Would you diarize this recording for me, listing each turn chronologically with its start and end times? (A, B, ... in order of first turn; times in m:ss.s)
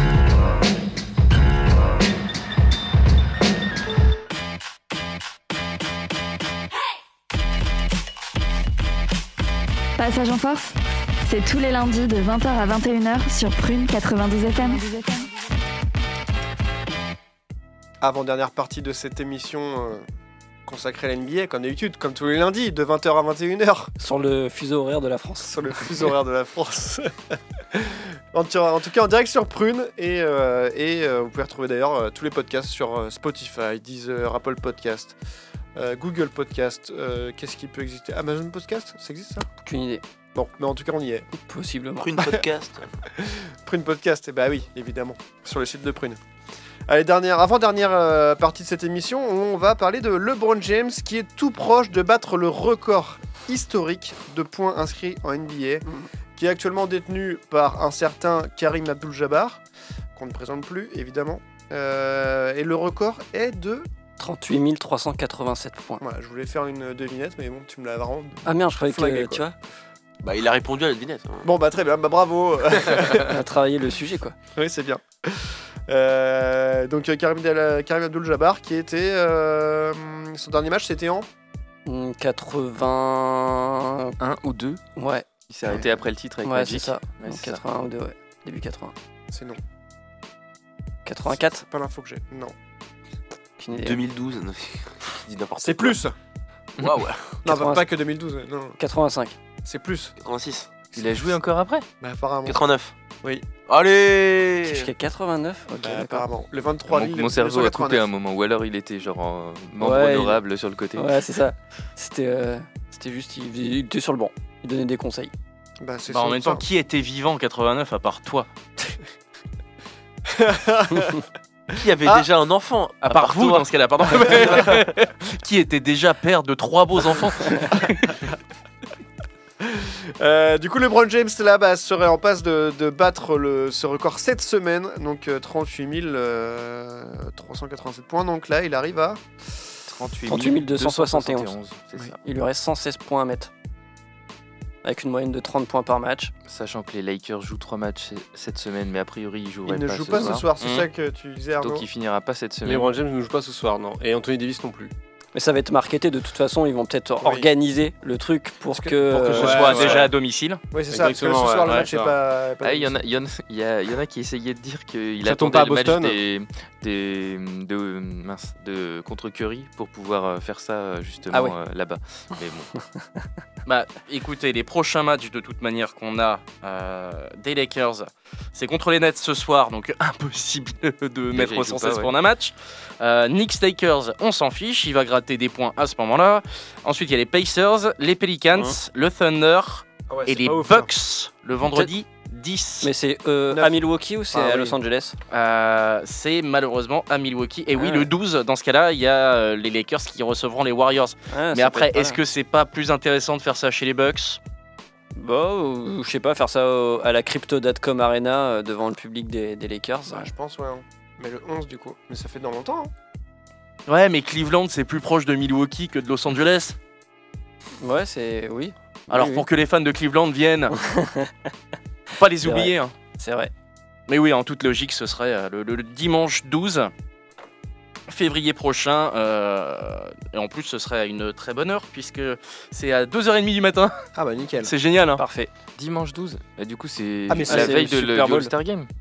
0:10.0-0:15.3 A
0:18.0-0:20.0 B
0:20.6-0:23.9 B
0:24.0-0:25.6 C
0:25.5-0:35.2 B
0:35.7-0:39.5 B
0:39.6-0:40.0 C
0:40.3-0:41.3 B
0:41.3-0:42.1 C
0:42.0-0:42.9 D
0:43.2-0:46.2 B
0:46.9-0:55.8 B
0:56.4-0:59.6 B
1:00.1-1:03.9 B
1:04.2-1:06.0 C
1:06.0-1:09.4 B
1:08.4-1:09.5 C
1:10.2-1:11.5 D
1:11.4-1:13.4 B
1:13.2-1:14.4 C
1:14.5-1:21.3 B
1:21.8-1:24.2 C
1:24.2-1:24.8 E
1:25.0-1:25.3 C
1:25.5-1:27.6 E
1:26.4-1:28.9 C
1:29.3-1:29.6 B
1:31.0-1:31.6 C
1:31.3-1:32.5 B
1:33.6-1:34.0 C
1:33.7-1:36.0 D
1:35.6-1:36.1 B
1:36.8-1:37.4 D
1:37.4-1:37.8 C
1:37.4-1:38.8 B
1:38.8-1:39.4 C
1:39.6-1:40.2 B
1:40.2-1:40.7 D
1:40.9-1:41.8 E
1:42.0-1:42.6 B
1:42.4-1:42.9 D
1:43.7-1:44.9 D
1:44.7-1:46.3 C
1:45.8-1:48.1 B
1:46.9-1:51.2 E
1:49.8-1:50.4 C
1:50.9-1:55.3 C
1:55.8-1:56.6 B
1:56.1-1:58.5 F
2:00.3-2:01.2 B
2:01.7-2:04.7 D
2:03.0-2:08.2 F
2:09.6-2:19.2 B
2:19.9-2:22.2 E
2:20.2-2:21.5 C
2:22.2-2:23.5 C
2:24.8-2:26.3 C
2:26.5-2:30.5 E
2:29.6-2:31.8 B
2:30.6-2:30.9 F
2:31.6-2:32.9 E
2:32.6-2:34.9 G
2:35.3-2:39.6 C
2:37.2-2:37.5 B
2:38.7-2:40.1 B
2:39.2-2:40.6 F
2:39.3-2:40.1 G
2:40.7-2:43.0 B
2:40.9-2:42.1 G
2:42.6-2:52.7 E
2:45.2-2:46.2 G
2:51.3-2:51.6 C
2:53.6-3:12.9 F
3:01.3-3:02.1 E
3:10.1-3:10.9 B
3:11.6-3:11.9 C
3:12.8-3:15.2 C
3:13.5-3:13.8 B
3:14.3-3:14.8 B
3:15.3-3:24.4 F
3:17.8-3:18.1 C
3:21.3-3:22.2 C
3:25.1-3:30.3 C
3:30.1-3:32.9 B
3:33.9-3:36.8 F
3:37.8-3:39.4 C
3:39.1-3:40.7 F
3:40.7-3:41.3 C
3:42.1-3:42.9 F
3:42.4-3:43.5 C
3:44.1-3:46.9 F
3:48.1-3:54.1 F
3:54.2-3:54.7 B
3:54.6-3:55.2 F
3:55.2-3:55.5 C
3:55.8-3:58.9 E
3:57.3-3:57.8 B
3:57.4-3:58.5 C